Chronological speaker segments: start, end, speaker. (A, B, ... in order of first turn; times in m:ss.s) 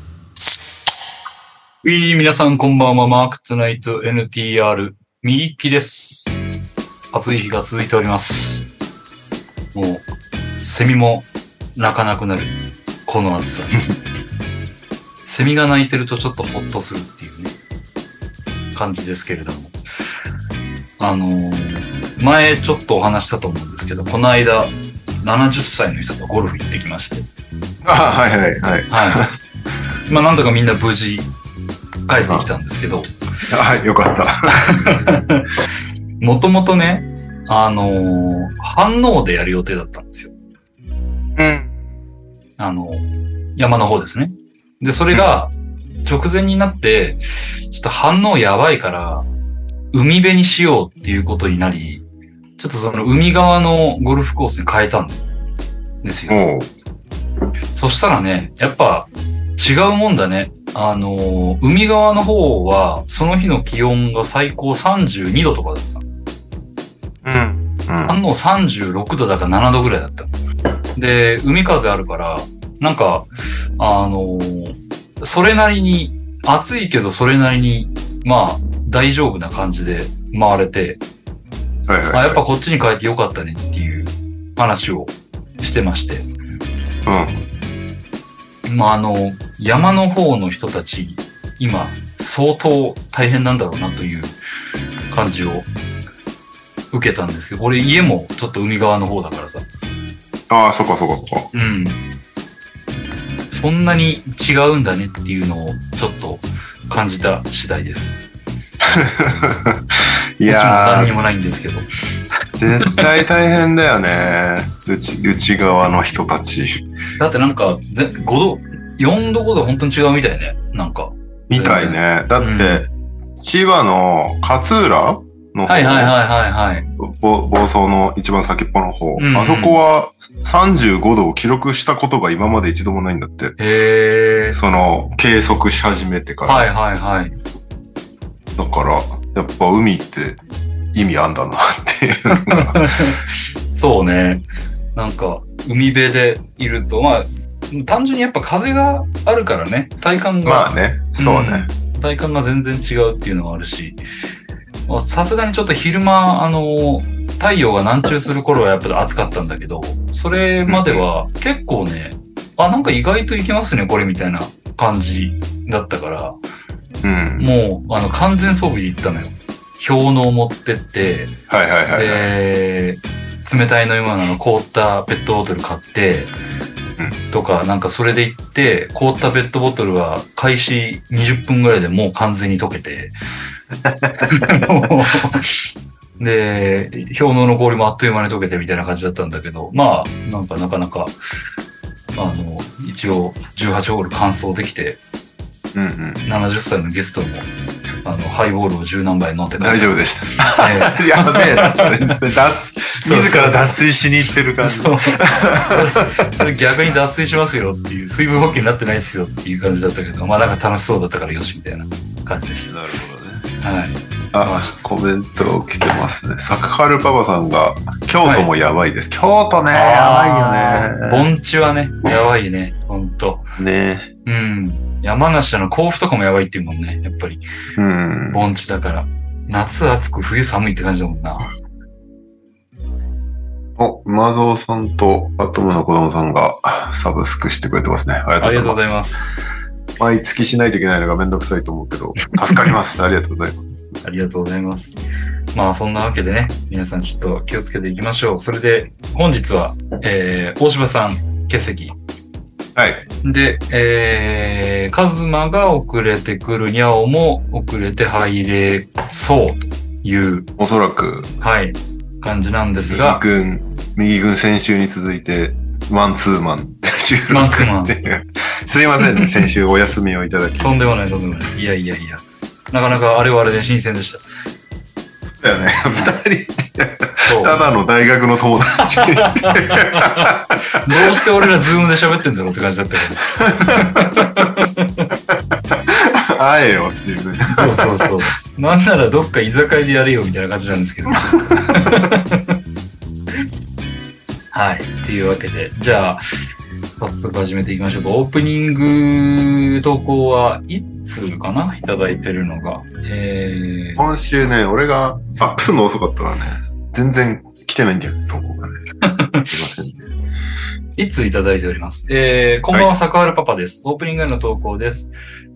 0:01.8-0:06.4 A
0:07.1-0:08.6 A
0:09.7-0:10.1 A
0:10.6-0:13.8 A
0:15.2-0:17.5 A
0:18.7-0:19.8 A
0:21.0-0:27.3 A
0:27.8-0:29.3 B
0:28.9-0:29.2 A
0:30.1-0:31.3 A
0:32.1-0:33.1 A
0:33.5-0:35.2 B
0:34.6-0:35.5 A
0:36.2-0:40.3 A
0:41.4-0:41.7 B
0:42.6-0:45.5 A
0:46.0-0:49.3 A
0:49.9-0:52.1 A
0:52.6-0:55.2 A
0:56.0-0:56.4 A
0:56.3-0:56.7 B
0:57.7-1:06.0 A
1:07.2-1:08.2 B
1:08.0-1:10.3 A
1:11.0-1:21.0 A
1:21.9-1:22.4 B
1:22.1-1:26.3 A
1:27.0-1:27.4 B
1:28.6-1:34.4 A
1:35.1-1:35.7 A
1:36.9-1:39.6 A
1:40.5-1:41.5 B
1:41.5-1:42.0 A
1:43.5-1:48.3 A
1:48.8-1:51.1 B
1:50.4-1:51.9 A
1:52.6-1:56.8 B
1:57.2-2:02.9 A
2:01.5-2:06.2 B
2:05.6-2:06.9 A
2:06.9-2:13.6 B
2:09.2-2:09.8 A
2:13.6-2:14.6 A
2:14.5-2:16.7 B
2:16.4-2:17.4 A
2:18.5-2:20.4 B
2:20.9-2:23.1 B
2:22.3-2:34.0 A
2:30.4-2:31.7 B
2:34.9-2:46.4 A
2:40.6-2:41.0 B
2:47.0-2:47.5 B
2:47.4-2:51.4 A
2:51.5-2:52.3 B
2:51.9-2:56.3 A
2:57.3-3:03.1 A
3:03.8-3:04.5 B
3:04.2-3:05.6 A
3:06.2-3:11.2 A
3:12.1-3:15.0 A
3:15.7-3:16.2 B
3:16.2-3:17.5 A
3:18.0-3:22.2 A
3:19.6-3:26.1 B
3:23.0-3:23.7 A
3:24.6-3:32.7 A
3:32.7-3:33.5 B
3:33.6-3:34.7 A
3:34.3-3:41.2 B
3:38.2-3:38.5 A
3:39.7-3:43.4 A
3:43.6-3:44.1 B
3:44.2-3:47.4 A
3:47.8-3:48.5 B
3:48.3-3:51.5 A
3:53.8-3:59.0 B
3:58.4-3:59.3 A
4:00.0-4:03.6 B
4:04.0-4:05.0 A
4:05.5-4:12.0 A
4:12.7-4:13.0 B
4:13.2-4:20.5 A
4:20.6-4:21.3 B
4:21.4-4:23.2 A
4:22.8-4:30.7 B
4:27.3-4:28.0 A
4:30.6-4:34.2 A
4:35.4-4:41.2 B
4:35.8-4:36.2 A
4:37.2-4:37.6 A
4:39.2-4:45.1 A
4:43.4-4:44.4 B
4:45.3-4:48.1 B
4:47.5-4:52.6 A
4:54.5-4:56.2 A
4:57.0-5:04.0 A
5:04.0-5:08.8 B
5:09.0-5:09.5 A
5:09.4-5:10.1 B
5:11.0-5:15.1 A